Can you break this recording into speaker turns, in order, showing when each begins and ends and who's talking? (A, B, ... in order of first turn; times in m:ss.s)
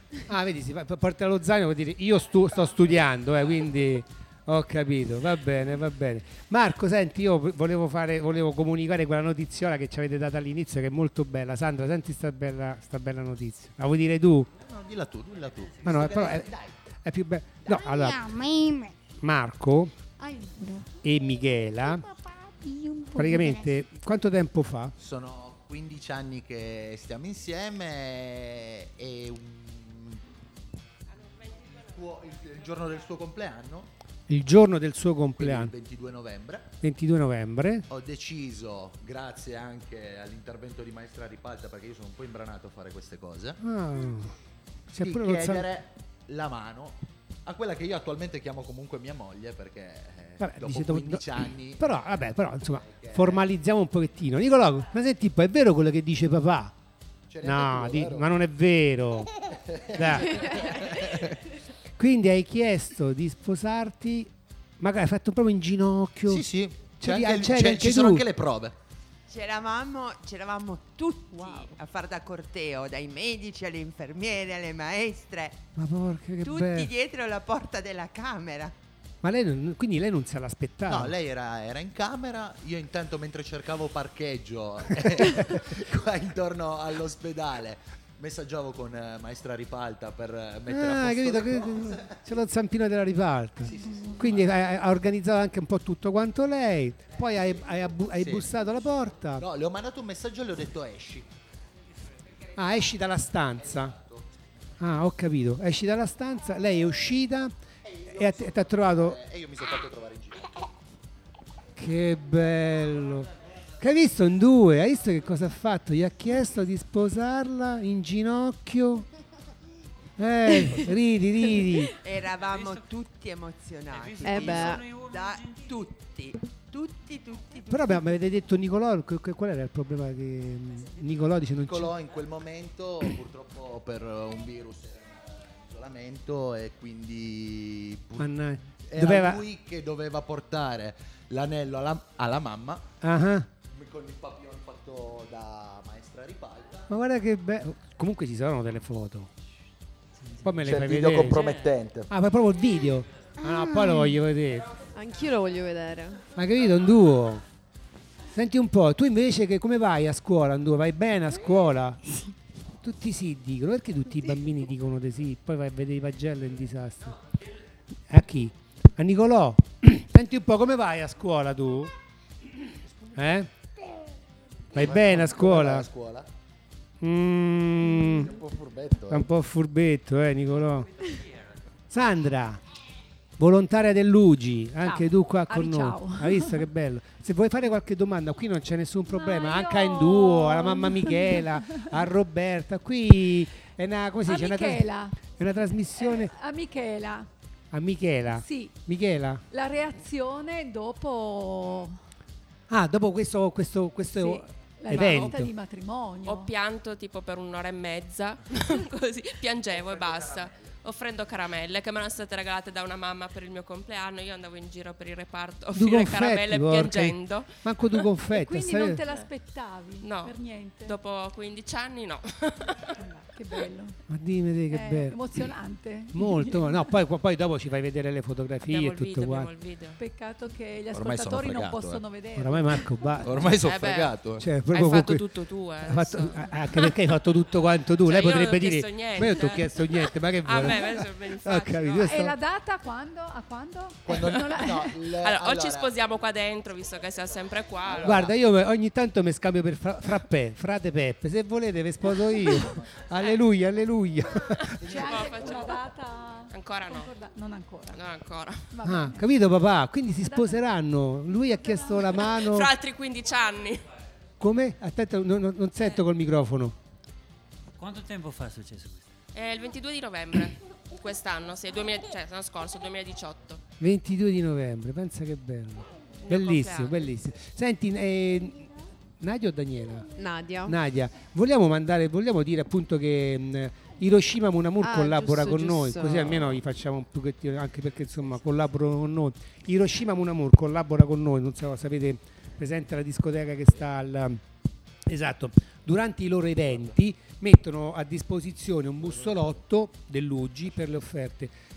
0:00.3-0:14.5 A
0:14.6-0:16.8 B
0:15.8-0:18.2 A
0:17.7-0:19.0 C
0:19.2-0:20.0 A
0:20.2-0:21.0 C
0:21.0-0:22.0 A
0:21.8-0:23.7 C
0:23.2-0:24.9 A
0:25.0-0:30.2 B
0:31.2-0:31.9 D
0:31.8-0:33.9 B
0:34.3-0:35.7 A
0:35.4-0:36.7 B
0:36.8-0:37.9 A
0:37.9-0:43.6 B
0:43.6-0:44.4 A
0:44.9-0:45.7 A
0:45.0-0:53.4 B
0:50.4-0:56.8 A
0:57.3-0:58.3 B
0:57.4-0:59.3 A
0:59.6-1:01.4 B
1:00.0-1:01.1 A
1:02.0-1:08.3 A
1:06.3-1:08.8 B
1:09.3-1:15.7 E
1:15.8-1:16.9 A
1:16.4-1:18.7 E
1:19.2-1:21.2 A
1:20.9-1:32.2 B
1:25.2-1:25.5 A
1:30.7-1:39.5 A
1:33.7-1:34.2 B
1:38.2-1:38.5 B
1:39.4-1:41.3 B
1:42.6-1:44.0 A
1:43.6-1:44.3 B
1:44.8-1:47.5 A
1:47.8-1:50.7 B
1:48.1-1:49.2 A
1:51.8-1:59.1 A
2:00.2-2:02.0 A
2:01.9-2:08.0 E
2:02.5-2:02.8 F
2:03.9-2:05.6 F
2:04.2-2:04.8 G
2:07.7-2:11.9 A
2:11.6-2:23.0 B
2:18.2-2:19.4 A
2:23.0-2:23.5 A
2:23.7-2:26.9 B
2:26.9-2:29.3 A
2:30.4-2:31.5 A
2:30.6-2:32.1 B
2:32.1-2:34.7 A
2:33.4-2:34.2 C
2:35.0-2:36.2 G
2:36.4-2:37.4 A
2:38.3-2:42.0 A
2:42.8-2:47.2 A
2:48.1-2:51.9 A
2:52.9-2:53.4 B
2:53.2-2:53.5 A
2:54.7-2:56.3 B
2:54.7-2:55.9 A
2:57.0-2:58.4 A
2:58.0-2:59.3 B
2:59.1-3:00.9 A
3:01.9-3:02.6 A
3:03.4-3:16.3 A
3:04.8-3:06.7 H
3:09.1-3:12.0 H
3:14.2-3:15.3 H
3:16.0-3:17.3 H
3:17.7-3:19.4 A
3:18.3-3:18.8 H
3:19.5-3:22.0 H
3:22.7-3:25.5 A
3:24.1-3:26.5 H
3:24.9-3:25.5 D
3:26.2-3:38.0 D
3:29.8-3:30.5 B
3:35.7-3:39.0 A
3:38.3-3:41.0 H
3:40.0-3:42.9 D
3:43.0-3:44.0 H
3:44.1-3:45.2 A
3:44.7-3:46.9 H
3:46.1-3:49.5 A
3:48.7-3:50.0 D
3:50.0-3:53.2 H
3:50.9-3:52.0 B
3:52.4-3:53.5 A
3:53.2-3:54.5 B
3:53.6-3:54.2 D
3:54.4-3:55.3 A
3:54.7-3:57.0 D
3:55.8-4:02.4 A
3:58.0-4:02.2 D
4:02.0-4:05.1 H
4:04.1-4:05.9 B
4:05.2-4:08.3 D
4:07.9-4:08.3 B
4:08.0-4:14.8 A
4:14.7-4:15.9 D
4:14.8-4:18.0 H
4:16.5-4:17.1 D
4:17.9-4:18.7 D
4:18.7-4:19.3 H
4:18.8-4:22.7 A
4:20.2-4:20.6 H
4:21.3-4:22.1 H
4:22.3-4:23.9 D
4:24.4-4:26.8 A
4:27.8-4:29.1 F
4:29.3-4:33.6 D
4:33.8-4:38.7 A
4:36.2-4:37.1 D
4:39.2-4:40.1 A
4:40.2-4:40.8 G
4:40.6-4:54.4 A
4:44.8-4:46.4 G
4:55.1-5:01.5 A